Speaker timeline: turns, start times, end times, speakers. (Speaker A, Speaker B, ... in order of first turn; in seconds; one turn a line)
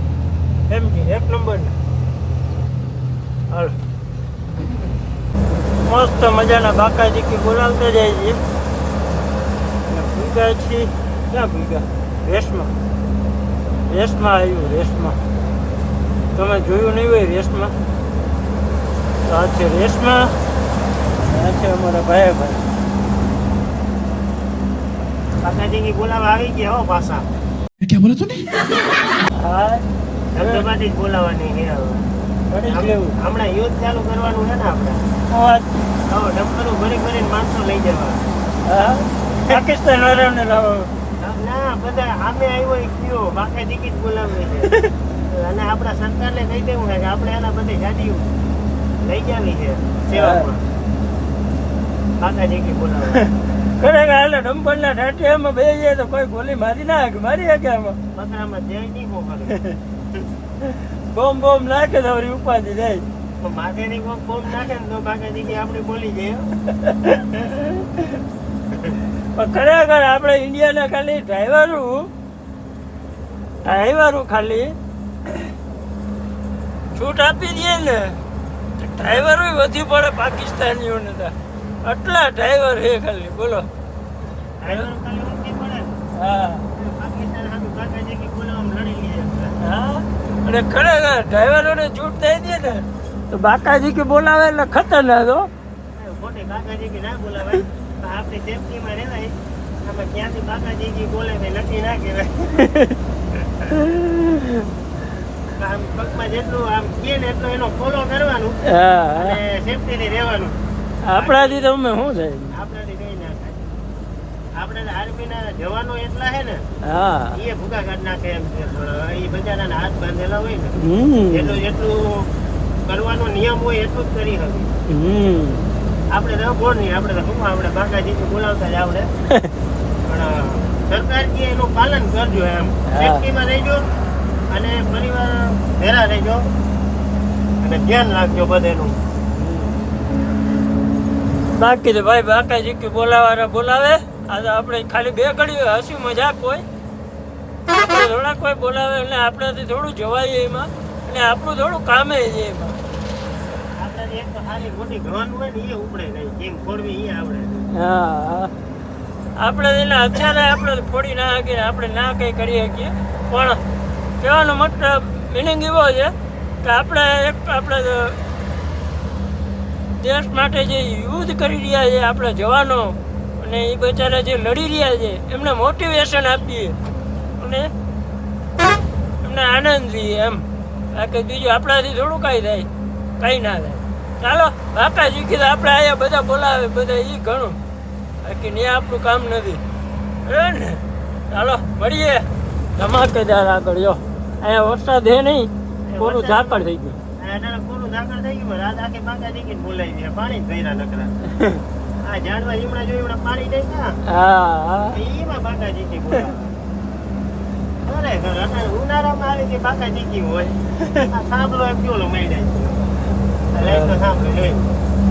Speaker A: 0.7-1.8
Speaker A: 3.5-3.8
Speaker A: 5.8-8.4
Speaker A: 9.9-12.7
Speaker A: 13.9-15.2
Speaker A: 16.3-17.7
Speaker A: 19.2-20.4
Speaker A: 21.2-22.6
Speaker B: 25.4-27.3
Speaker A: 29.3-29.9
Speaker B: 30.3-32.0
Speaker A: 32.5-33.1
Speaker B: 32.7-35.0
Speaker A: 35.3-35.7
Speaker B: 36.1-38.3
Speaker A: 38.6-40.9
Speaker B: 41.2-44.7
Speaker B: 45.3-48.3
Speaker B: 49.0-50.7
Speaker A: 50.1-50.4
Speaker B: 52.2-53.2
Speaker A: 53.2-58.0
Speaker B: 58.1-59.6
Speaker A: 61.1-63.0
Speaker B: 63.4-66.5
Speaker A: 66.8-68.0
Speaker A: 69.3-72.1
Speaker A: 73.6-74.7
Speaker A: 76.9-78.2
Speaker A: 78.8-83.7
Speaker B: 84.6-86.0
Speaker A: 86.2-86.6
Speaker B: 86.8-89.5
Speaker A: 89.6-95.5
Speaker B: 96.0-102.5
Speaker A: 102.6-103.0
Speaker A: 103.6-104.6
Speaker B: 105.6-108.6
Speaker A: 108.7-109.4
Speaker B: 109.1-110.6
Speaker A: 111.0-112.6
Speaker B: 111.1-111.7
Speaker B: 112.5-113.7
Speaker B: 114.6-116.6
Speaker A: 116.9-117.4
Speaker B: 117.3-120.8
Speaker A: 120.8-121.6
Speaker B: 121.3-122.3
Speaker B: 122.8-124.7
Speaker A: 124.9-125.7
Speaker B: 126.1-129.1
Speaker B: 130.1-133.8
Speaker A: 132.9-133.2
Speaker B: 134.5-136.4
Speaker B: 137.6-139.0
Speaker A: 139.4-139.8
Speaker A: 141.5-146.6
Speaker A: 147.7-152.8
Speaker B: 153.8-157.7
Speaker A: 157.7-158.5
Speaker A: 159.4-163.6
Speaker A: 164.2-168.2
Speaker A: 170.0-176.8
Speaker A: 177.4-177.7
Speaker A: 179.2-187.6
Speaker A: 188.2-189.6
Speaker A: 190.2-197.0
Speaker B: 195.9-196.6
Speaker B: 197.2-201.2
Speaker B: 202.0-204.0
Speaker A: 204.1-205.0
Speaker B: 204.9-206.6
Speaker B: 207.8-210.6
Speaker B: 211.1-212.9
Speaker B: 213.5-214.7
Speaker A: 213.6-213.9